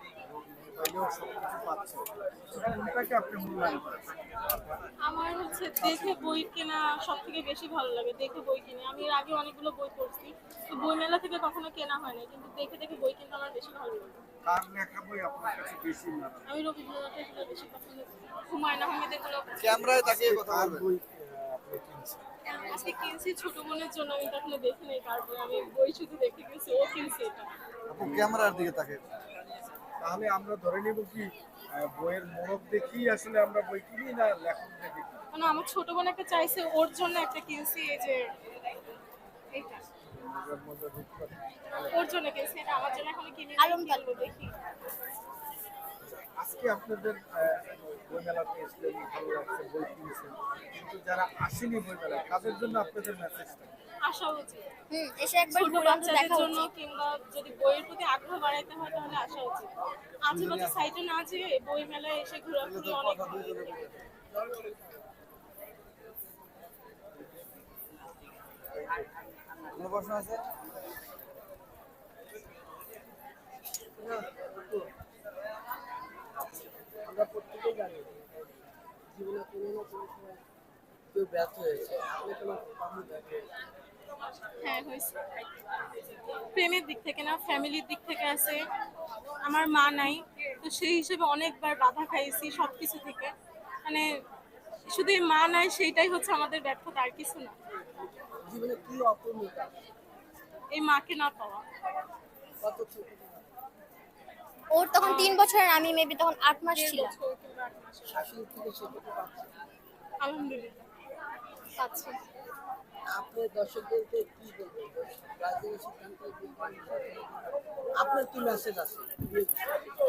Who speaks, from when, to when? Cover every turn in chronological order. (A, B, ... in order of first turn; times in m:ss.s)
0:00.7-0:04.8 A
0:05.0-0:14.2 B
0:05.5-0:06.5 A
0:14.4-0:16.5 A
0:16.4-0:19.9 B
0:19.6-0:20.8 C
0:20.0-0:22.2 A
0:22.4-0:23.1 D
0:22.7-0:27.5 B
0:27.9-0:29.0 C
0:28.0-0:28.4 A
0:30.0-0:35.2 A
0:35.3-0:38.2 B
0:39.5-0:39.8 B
0:40.1-0:42.0 A
0:41.9-0:44.6 B
0:43.6-0:44.2 D
0:46.0-0:53.7 A
0:54.0-0:54.6 B
0:54.9-0:56.7 D
0:55.5-0:59.7 B
1:00.2-1:03.8 B
1:00.3-1:00.9 C
1:02.6-1:04.0 C
1:04.3-1:05.1 E
1:09.7-1:10.5 C
1:14.0-1:14.9 E
1:17.0-1:20.4 E
1:21.1-1:23.5 E
1:24.6-1:25.1 B
1:26.5-1:28.6 B
1:29.4-1:33.3 B
1:34.9-1:37.5 B
1:38.4-1:39.8 E
1:40.7-1:41.6 B
1:42.6-1:43.5 E
1:44.7-1:47.1 D
1:45.0-1:45.4 B
1:46.7-1:48.3 B
1:48.1-1:49.5 E
1:50.2-1:50.8 B
1:51.8-1:52.2 B
1:53.1-1:59.7 E